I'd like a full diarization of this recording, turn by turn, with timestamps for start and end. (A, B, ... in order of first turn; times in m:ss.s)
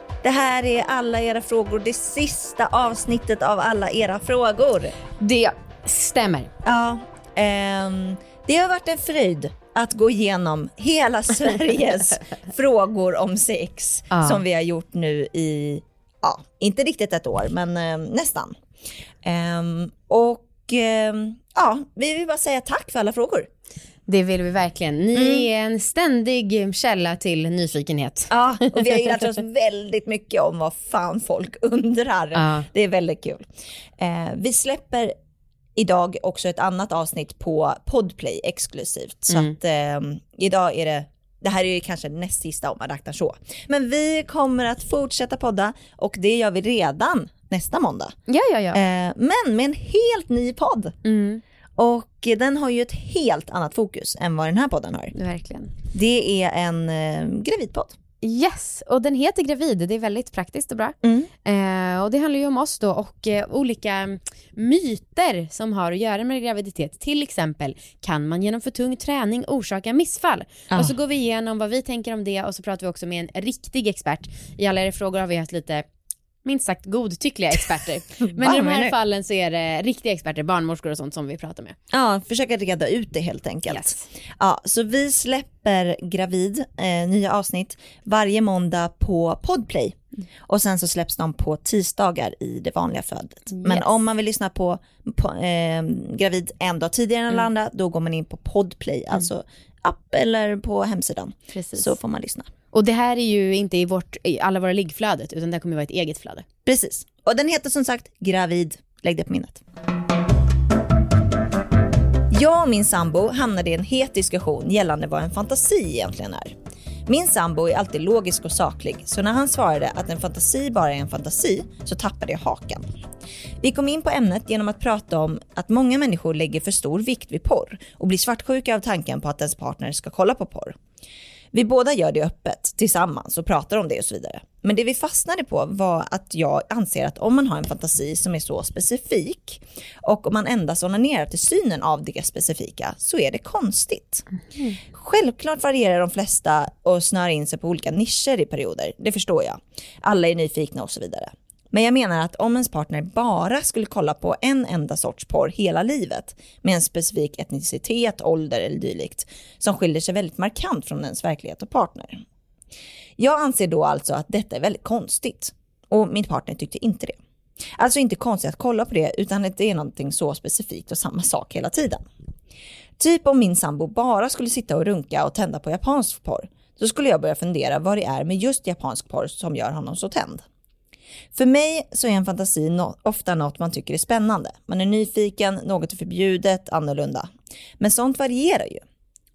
0:00.2-0:05.0 A
0:05.2-0:06.5 B
0:06.6-0:18.5 A
0:14.1-0:14.4 B
0:19.2-0:23.5 A
0:24.1-0:29.2 B
0:25.2-0:25.5 A
0:28.3-0:33.5 A
0:32.4-0:32.7 B
0:34.0-0:35.1 A
0:35.8-0:48.1 A
0:48.3-0:48.8 B
0:48.7-0:50.9 A
0:51.0-0:51.4 B
0:51.8-0:55.1 A
0:55.1-0:55.8 B
0:55.9-0:57.9 A
0:58.2-1:15.8 B
1:01.0-1:01.3 A
1:10.7-1:11.0 A
1:16.4-1:21.8 B
1:18.4-1:19.0 A
1:21.9-1:30.0 A
1:23.7-1:24.0 B
1:30.5-1:42.5 A
1:33.6-1:33.8 B
1:41.5-1:42.0 B
1:42.7-1:46.5 B
1:46.7-1:49.6 A
1:52.3-1:56.5 A
1:57.1-2:02.8 A
2:03.6-2:10.8 A
2:11.5-2:24.3 A
2:24.9-2:42.2 A
2:43.2-2:47.2 A
2:47.8-2:52.0 A
2:53.0-3:00.4 A
3:01.3-3:08.8 A